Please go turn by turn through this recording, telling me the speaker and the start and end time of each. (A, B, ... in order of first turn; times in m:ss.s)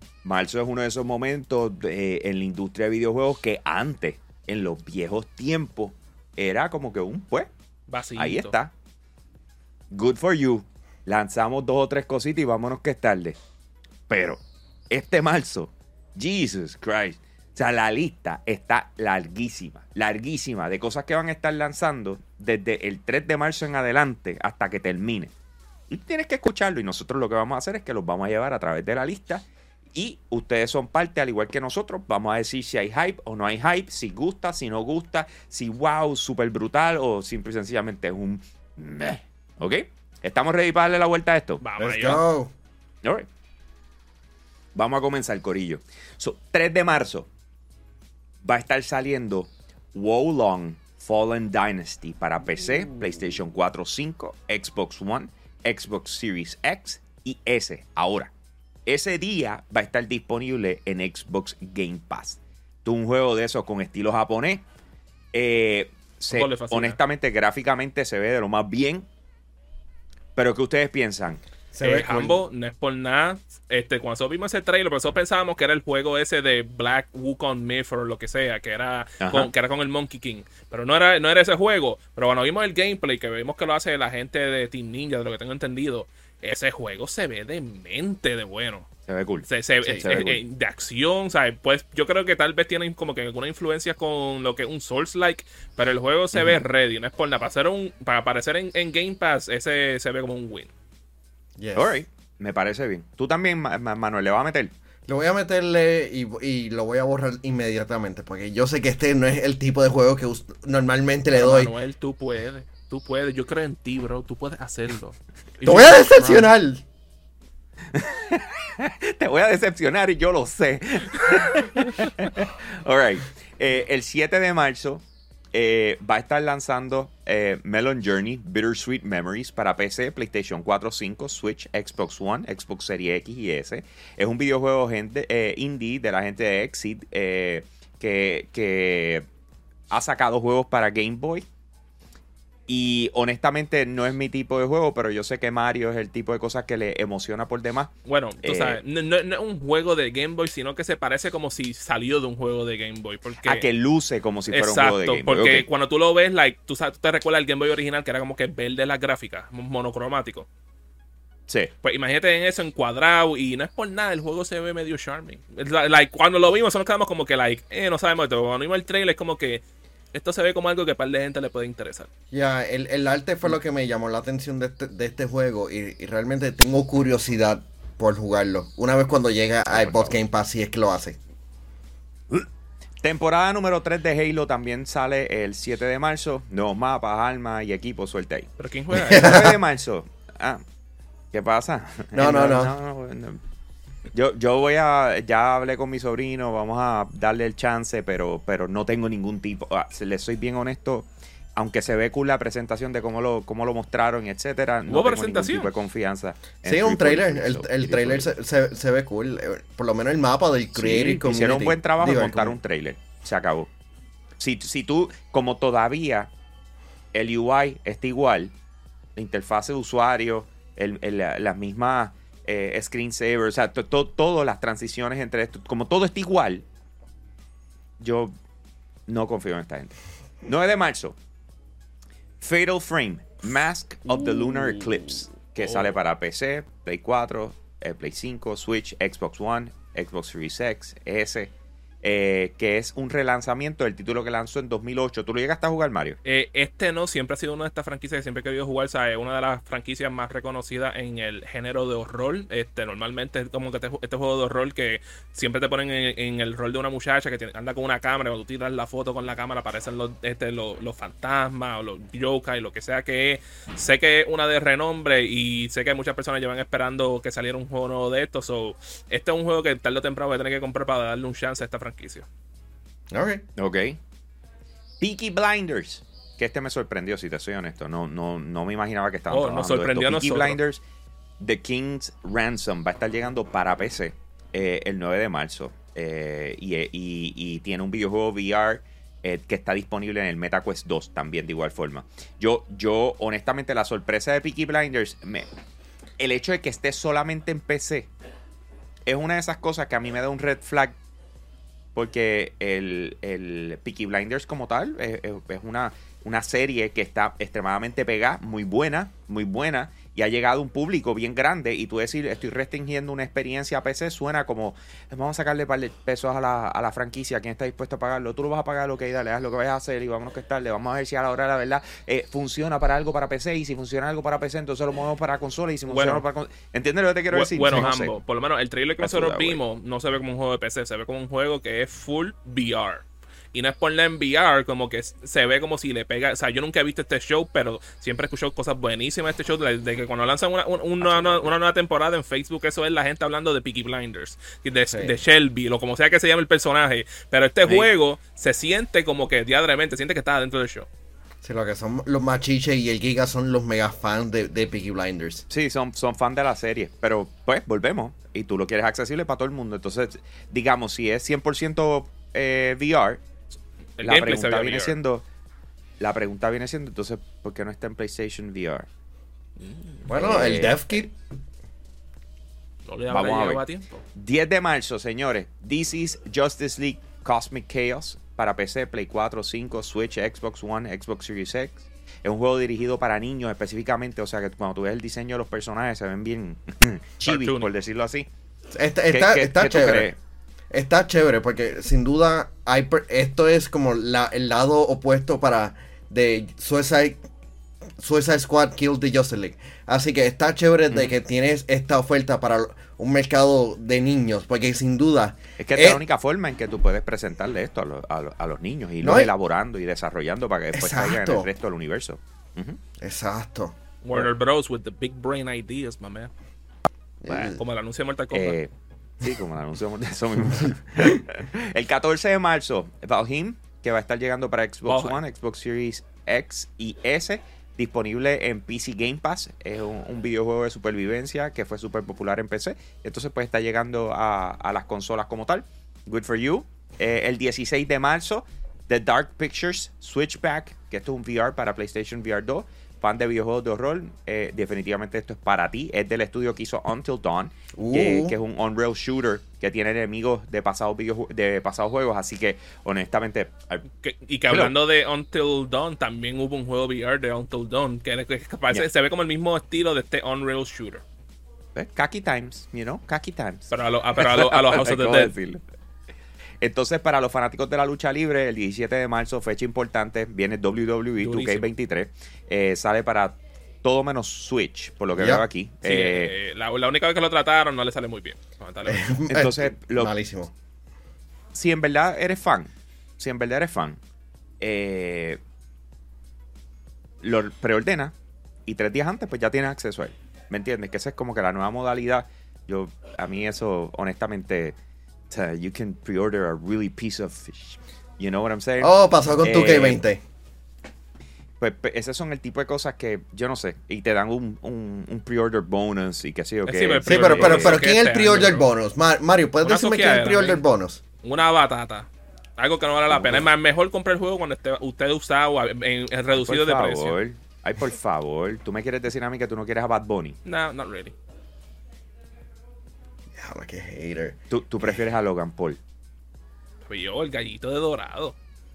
0:00.2-0:07.5 A
0:07.9-0:08.6 B
0:08.2-0:08.7 A
0:09.9-0:13.4 A
0:14.1-0:14.4 A
0:14.9-0:25.3 A
0:25.9-0:41.6 A
0:41.6-0:42.2 B
0:41.8-0:42.5 C
0:44.8-0:47.3 A
0:48.4-0:58.3 A
0:58.9-1:04.6 A
1:05.3-1:09.1 A
1:06.3-1:07.0 B
1:10.4-1:11.4 A
1:11.7-1:12.4 C
1:11.8-1:28.9 B
1:19.2-1:19.5 A
1:29.1-1:29.5 A
1:29.5-1:40.7 B
1:30.0-1:30.4 A
1:36.3-1:36.6 A
1:41.6-1:42.0 C
1:41.8-1:44.7 A
1:45.1-1:51.7 C
1:51.3-1:56.5 B
1:55.6-1:56.8 C
1:57.9-2:19.3 A
2:19.9-2:21.5 A
2:22.7-2:28.8 A
2:28.1-2:33.7 B
2:33.4-2:35.7 A
2:34.5-2:40.5 B
2:41.8-2:49.6 B
2:50.1-2:52.1 B
2:52.3-3:01.2 C
3:03.0-3:08.5 A
3:08.6-3:09.5 B
3:09.0-3:10.6 A
3:09.0-3:09.6 C
3:11.3-3:13.4 A
3:12.1-3:12.7 C
3:14.1-3:28.3 A
3:24.9-3:25.7 B
3:26.6-3:32.6 C
3:30.8-3:33.7 A
3:34.4-3:36.3 A
3:37.1-3:38.5 A
3:39.2-3:46.6 A
3:48.0-3:48.3 A
3:49.1-3:51.2 A
3:52.4-4:06.2 A
3:55.6-3:56.0 B
4:06.2-4:32.3 B
4:33.1-4:33.4 C
4:33.6-4:34.0 A
4:35.0-4:40.8 A
4:39.3-4:40.6 B
4:41.4-4:55.5 A
4:56.2-4:58.1 A
4:59.1-5:01.0 A
5:02.0-5:28.1 A
5:25.9-5:26.2 B
5:27.3-5:50.9 B
5:29.0-5:29.6 A
5:41.0-5:41.5 A
5:51.4-5:55.4 C
5:55.5-6:03.2 A
6:04.0-6:05.0 B
6:04.0-6:05.2 A
6:06.0-6:08.9 A
6:09.6-6:10.0 B
6:10.1-6:11.1 C
6:10.1-6:10.8 A
6:12.9-6:14.0 B
6:13.1-6:13.6 A
6:14.2-6:28.3 A
6:27.2-6:27.7 B
6:28.7-6:30.1 C
6:29.1-6:30.2 A
6:30.7-6:37.2 C
6:38.0-6:46.0 C
6:45.6-6:52.8 A
6:49.0-6:49.3 C
6:50.7-6:51.5 C
6:53.0-6:53.8 C
6:54.0-6:56.3 B
6:57.2-6:57.6 C
6:57.3-6:58.6 B
6:58.3-6:58.7 A
6:59.2-7:33.8 A
7:04.9-7:05.2 B
7:27.8-7:28.3 C
7:34.0-7:41.0 B
7:34.5-7:34.8 A
7:41.8-7:45.6 A
7:43.7-7:45.3 B
7:46.6-7:56.3 A
7:51.2-7:51.7 B
7:55.2-7:55.4 C
7:55.8-7:59.2 B
7:58.8-8:00.5 C
7:59.3-8:00.1 A
8:01.5-8:04.0 A
8:04.6-8:05.4 A
8:07.2-8:08.1 A
8:08.7-8:14.8 A
8:15.3-8:20.0 A
8:18.8-8:20.2 C
8:21.6-8:27.8 A
8:26.7-8:28.7 B
8:27.1-8:31.0 C
8:29.6-8:30.6 B
8:31.2-8:37.2 B
8:33.1-8:33.5 A
8:36.3-8:40.4 A
8:40.4-8:41.2 B
8:43.4-8:44.4 C
8:44.5-8:45.8 A
8:46.9-8:48.4 B